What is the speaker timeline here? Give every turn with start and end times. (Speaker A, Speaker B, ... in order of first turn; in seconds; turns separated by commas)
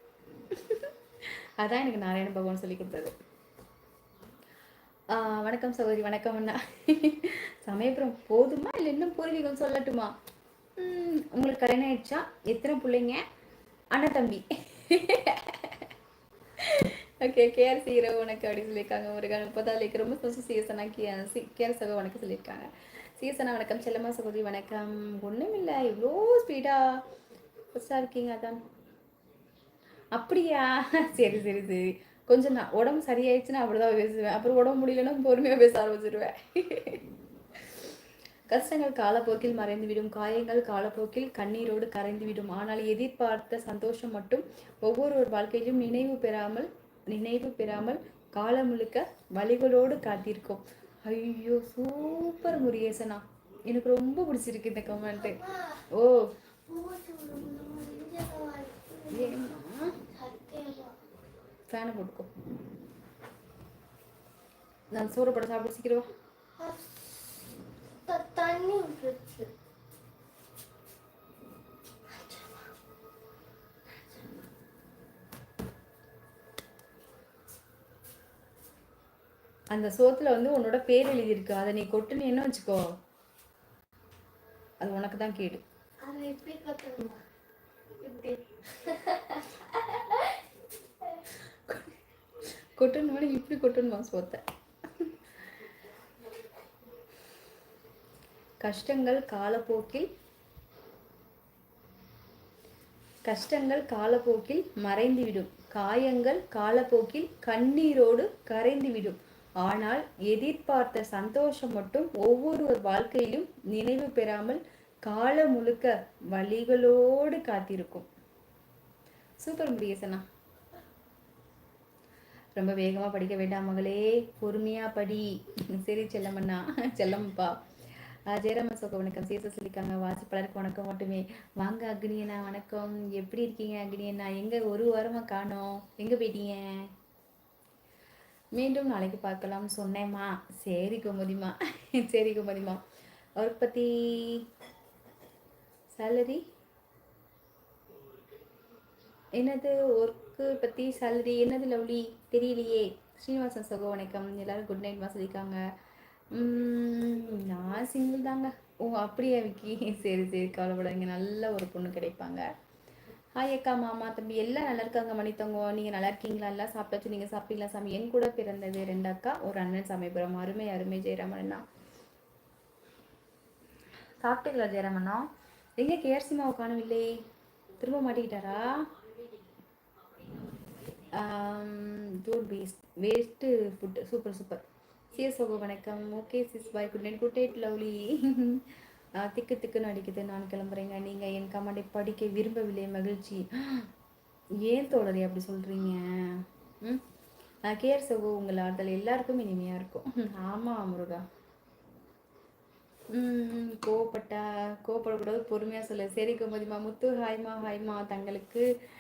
Speaker A: 0.5-3.1, Speaker A: 5.1-10.1, Speaker A: 10.8-13.2, Speaker A: 13.9-15.9, Speaker A: 16.6-27.0, Speaker A: 27.8-28.6, Speaker A: 30.1-37.0, Speaker A: 38.5-55.4, Speaker B: 55.1-55.9, Speaker A: 55.9-56.3, Speaker B: 56.7-61.0, Speaker A: 59.1-60.0, Speaker A: 61.7-62.3, Speaker A: 64.9-66.1, Speaker B: 66.6-67.2, Speaker B: 68.0-69.5, Speaker B: 72.1-72.7, Speaker A: 79.7-82.8, Speaker A: 84.8-85.6, Speaker B: 86.0-87.2, Speaker B: 88.0-90.4, Speaker A: 91.3-91.9, Speaker A: 92.8-94.4, Speaker A: 98.6-100.1, Speaker A: 103.2-118.1, Speaker A: 119.4-120.2, Speaker A: 122.5-127.6, Speaker A: 128.3-136.9, Speaker A: 138.6-142.8, Speaker A: 143.4-144.4, Speaker A: 146.0-146.4, Speaker A: 149.4-155.6, Speaker A: 156.3-162.4, Speaker A: 163.4-171.6, Speaker A: 174.2-177.2, Speaker A: 177.8-178.9, Speaker A: 181.1-188.6, Speaker A: 189.2-193.9, Speaker A: 194.7-197.0, Speaker A: 197.7-201.2, Speaker A: 203.1-208.7